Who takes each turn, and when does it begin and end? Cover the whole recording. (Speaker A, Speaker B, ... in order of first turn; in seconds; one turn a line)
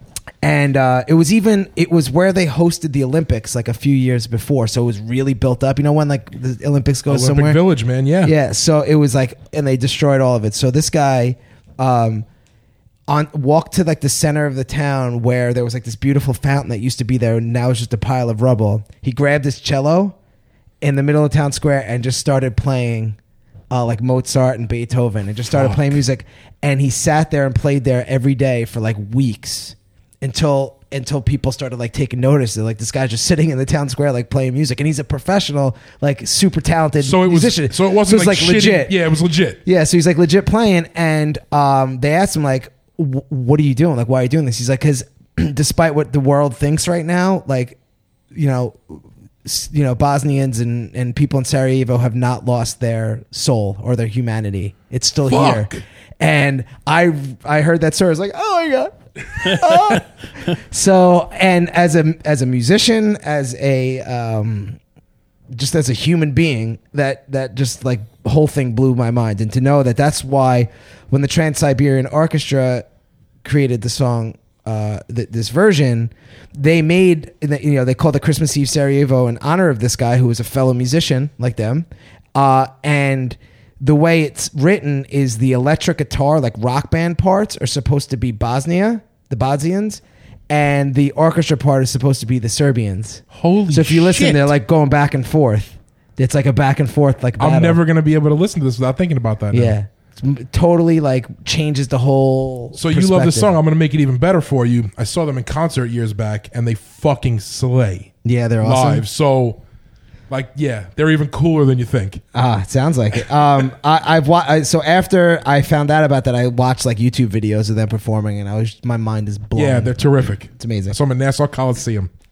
Speaker A: 0.4-7.6
Speaker B: 7.1-8.3
Speaker A: 8.2-12.2
Speaker A: 13.1-20.1
Speaker A: 20.8-23.2
Speaker A: 23.7-38.9
Speaker B: 25.5-26.0
Speaker B: 37.0-39.6
Speaker A: 39.6-47.8
Speaker A: 48.3-64.8
Speaker B: 55.3-55.8
Speaker A: 65.5-72.8
Speaker A: 73.4-97.8
Speaker B: 93.3-94.5
Speaker B: 97.4-99.7
Speaker A: 99.5-103.5
Speaker B: 102.7-108.1
Speaker A: 108.2-109.0
Speaker B: 108.6-109.6
Speaker B: 110.3-112.2
Speaker A: 112.3-119.9
Speaker B: 119.5-122.1
Speaker A: 120.5-121.0